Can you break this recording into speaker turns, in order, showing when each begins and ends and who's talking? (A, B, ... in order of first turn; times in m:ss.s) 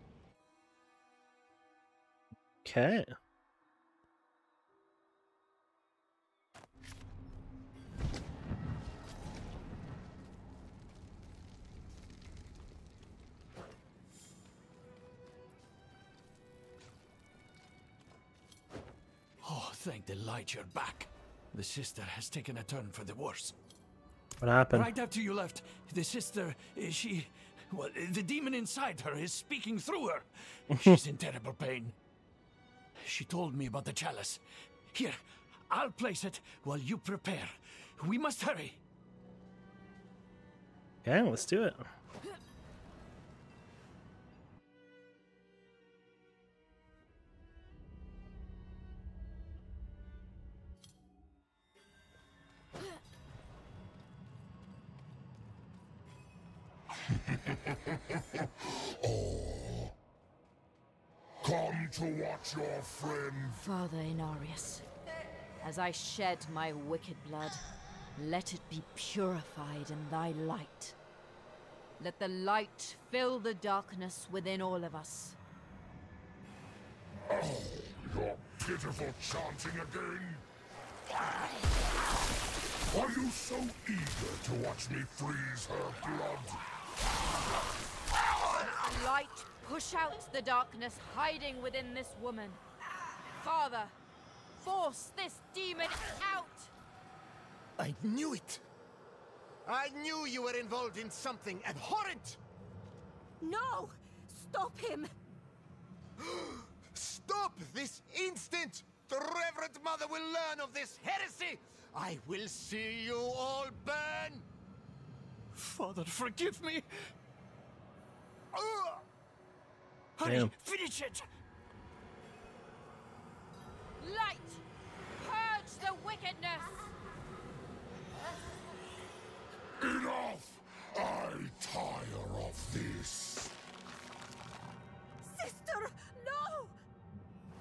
0:02.6-0:03.1 A
0:19.4-0:23.6 B
0:24.4-0:24.9 A
0:24.7-0:32.0 B
0:30.7-0:31.0 A
0:33.0-0:34.4 B
0:35.7-0:38.8 B
0:41.0-0:41.8 A
0:59.0-0:59.9 C
1:01.4-1:03.6 C
1:03.6-1:04.8 D
1:05.6-1:07.6 D
1:08.2-1:11.0 D
1:12.0-1:15.4 D
1:17.3-1:20.4 C
1:22.9-1:26.6 C
1:28.6-1:32.6 D
1:33.3-1:34.0 D
1:34.6-1:36.7 D
1:37.8-1:38.6 E
1:39.6-1:42.4 E
1:43.4-1:45.1 F
1:46.2-1:54.5 E
1:55.5-1:56.9 B
1:58.5-1:59.0 E
2:00.2-2:01.2 B
2:00.2-2:00.5 A
2:04.0-2:04.6 D
2:05.2-2:06.9 D
2:09.8-2:13.5 C
2:15.2-2:16.7 F